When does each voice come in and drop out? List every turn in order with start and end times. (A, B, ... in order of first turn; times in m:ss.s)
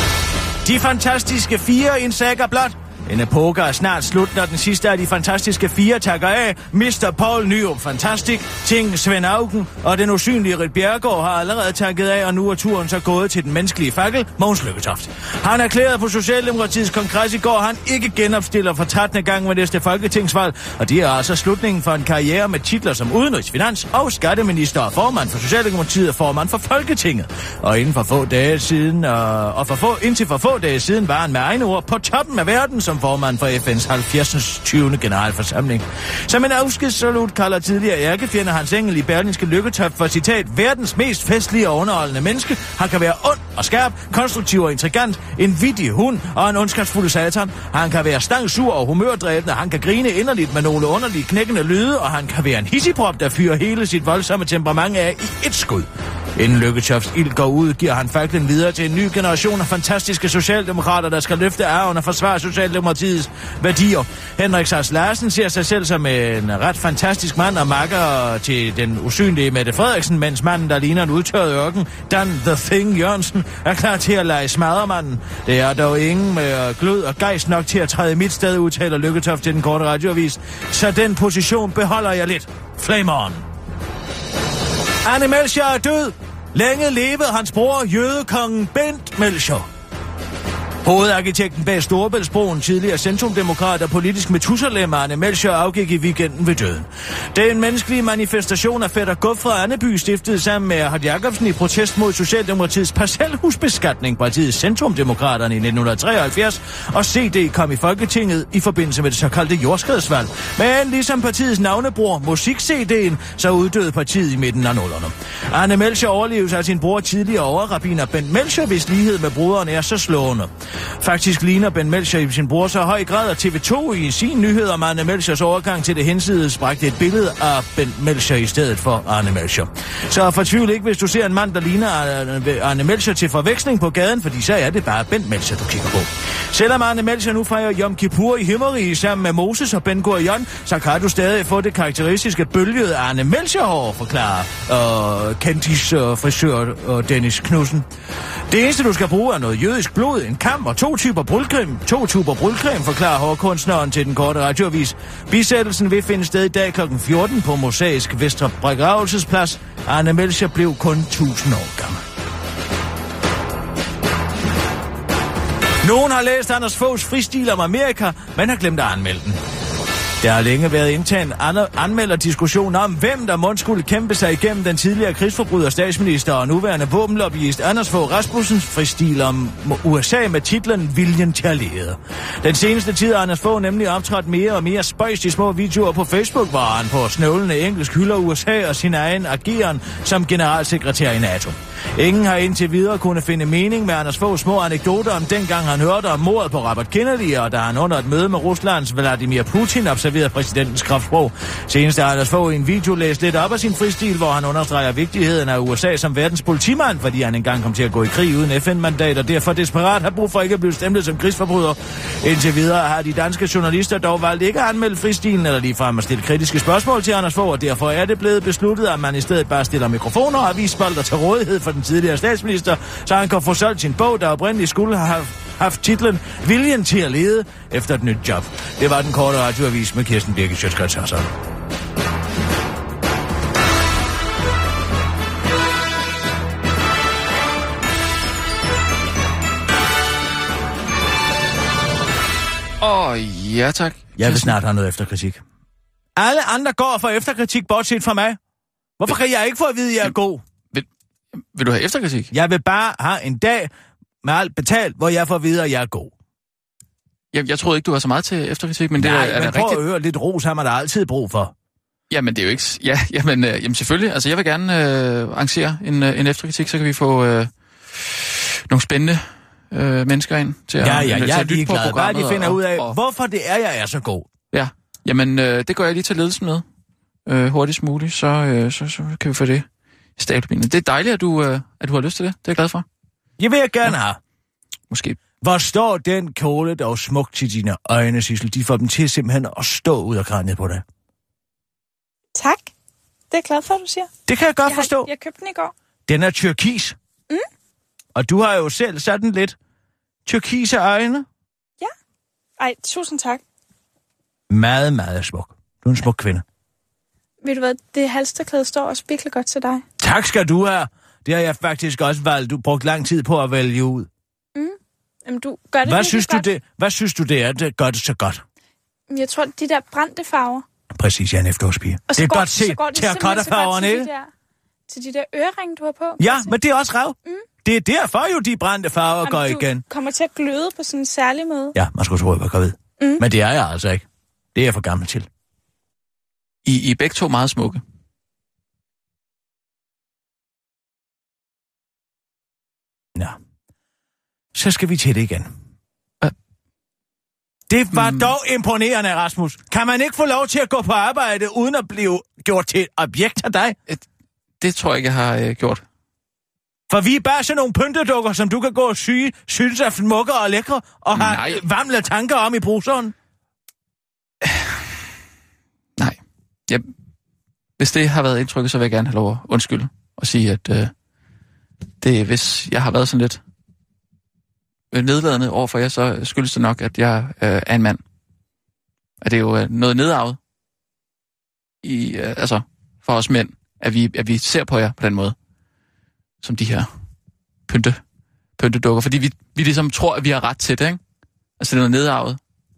0:00.6-1:23.4 A
1:25.0-1:29.7 A
1:30.8-2:27.9 A
2:28.5-2:42.0 A
2:45.8-2:49.4 A
2:50.2-3:51.3 A
4:02.8-4:04.6 B
4:04.2-4:05.4 A
4:06.2-4:08.4 A
4:09.0-4:10.4 A
4:11.5-4:12.3 B
4:12.3-4:13.7 A
4:14.2-4:16.1 A
4:17.3-4:19.8 B
4:19.0-4:21.5 A
4:22.1-4:33.0 B
4:30.8-4:34.3 A
4:34.5-4:36.6 B
4:37.3-4:39.7 B
4:40.2-4:42.8 B
4:43.4-4:44.2 A
4:44.9-4:45.2 B
4:45.4-4:50.8 A
4:52.4-4:52.7 C
4:53.3-4:54.1 C
4:54.3-4:55.1 A
4:54.7-4:55.7 C
4:56.1-4:57.0 A
4:58.2-4:59.6 A
5:00.3-5:01.3 A
5:02.6-5:03.4 C
5:04.5-5:06.4 A
5:07.4-5:09.8 C
5:10.0-5:14.1 A
5:14.6-5:16.5 C
5:15.8-5:18.4 A
5:19.1-5:20.6 C
5:20.9-5:24.1 A
5:22.1-5:24.3 C
5:24.9-5:26.5 C
5:26.2-5:29.8 A
5:29.2-5:31.8 C
5:31.8-5:35.3 A
5:36.6-5:37.8 B
5:44.5-5:45.5 A
5:47.7-5:53.8 A
5:47.9-5:48.3 B
5:54.6-5:55.8 B
5:56.9-6:03.1 A
6:01.1-6:01.6 B
6:04.4-6:04.8 B
6:06.0-6:06.9 B
6:07.8-6:10.9 B
6:12.0-6:13.4 B
6:14.9-6:18.0 B
6:19.2-6:20.4 B
6:21.8-6:25.4 B
6:26.4-6:26.9 B
6:27.7-6:28.0 B
6:28.6-6:31.0 B
6:31.6-6:32.4 B